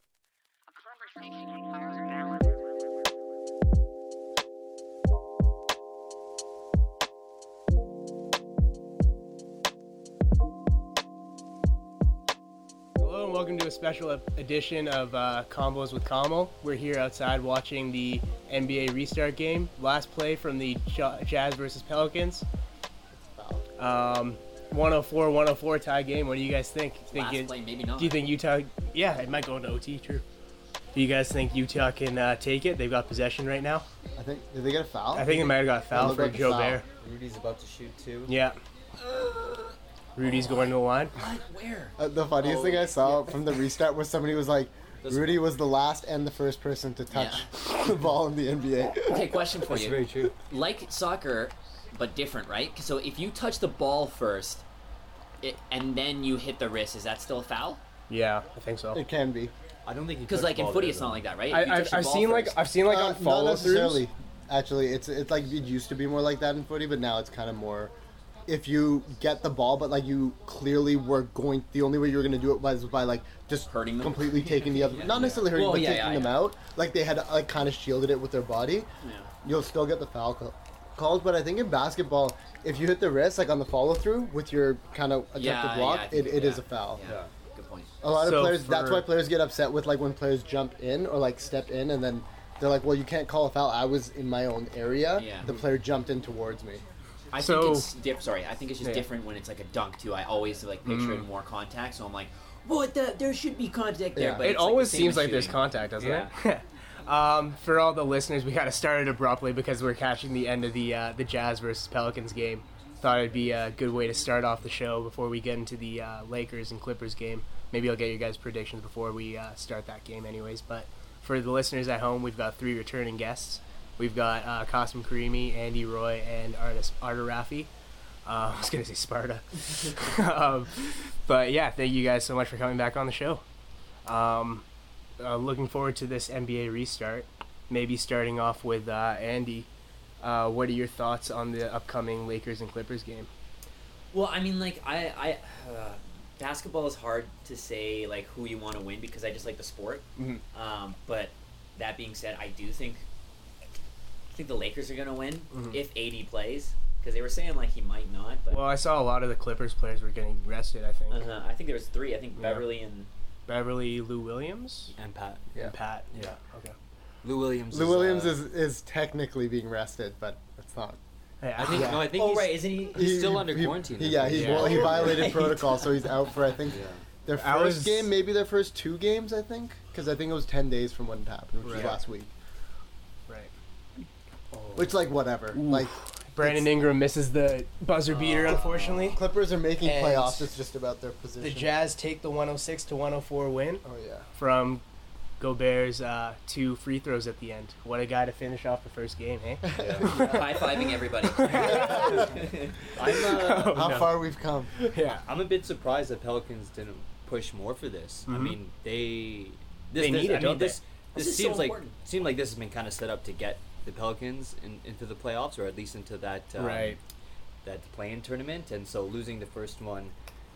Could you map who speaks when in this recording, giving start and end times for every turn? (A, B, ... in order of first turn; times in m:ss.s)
0:13.0-0:22.4 A
0:23.2-0:23.6 B
0:23.8-0:30.2 A
0:27.1-0:28.3 C
0:30.9-0:33.8 A
0:34.2-0:36.8 B
0:35.2-0:36.8 A
0:37.0-0:38.3 D
0:38.3-0:38.6 A
0:39.1-0:39.7 C
0:40.2-0:41.1 A
0:40.3-0:43.5 C
0:42.0-0:49.5 B
0:45.0-0:45.4 D
0:47.1-0:47.4 C
0:49.0-0:54.6 C
0:49.7-0:50.3 D
0:55.4-0:57.8 C
0:58.1-0:59.0 A
0:58.9-0:59.5 B
0:59.9-1:01.2 D
1:00.3-1:02.6 C
1:01.5-1:04.0 A
1:02.8-1:07.9 B
1:08.5-1:18.9 B
1:13.7-1:16.4 C
1:19.0-1:19.3 C
1:19.4-1:27.0 B
1:25.4-1:27.9 C
1:27.0-1:27.3 D
1:28.0-1:36.8 B
1:28.1-1:29.1 A
1:35.2-1:35.5 C
1:37.3-1:46.3 C
1:37.4-1:37.9 A
1:40.8-1:41.3 A
1:44.2-1:44.5 B
1:44.4-2:07.7 A
2:08.2-2:13.4 A
2:14.0-2:14.6 A
2:15.2-2:19.7 A
2:20.2-2:23.3 A
2:24.1-2:33.1 C
2:30.2-2:30.4 A
2:34.3-2:38.7 C
2:35.5-2:35.8 A
2:38.5-2:41.3 A
2:41.1-2:43.1 C
2:43.5-2:44.9 A
2:45.0-2:45.5 D
2:45.6-2:46.8 A
2:47.2-2:48.4 D
2:47.7-2:51.0 B
2:51.4-2:52.0 A
2:51.6-2:55.4 D
2:51.6-2:53.1 C
2:51.7-2:52.2 B
2:52.9-3:02.3 B
2:54.3-2:54.8 A
2:54.5-2:56.2 C
2:56.7-2:57.0 D
2:57.3-2:58.1 A
3:01.6-3:02.0 A
3:04.5-3:04.9 D
3:04.8-3:06.7 B
3:05.5-3:09.2 A
3:08.5-3:11.7 B
3:09.8-3:10.5 A
3:11.4-3:14.8 A
3:13.8-3:14.3 B
3:15.4-3:24.2 A
3:19.6-3:20.2 B
3:19.8-3:20.1 D
3:20.0-3:22.7 C
3:21.5-3:22.4 B
3:23.0-3:23.9 D
3:23.6-3:24.7 B
3:24.8-3:25.2 A
3:25.1-3:37.0 D
3:28.3-3:28.6 A
3:30.0-3:30.8 A
3:31.2-3:32.0 C
3:36.6-3:37.0 A
3:37.6-3:40.1 D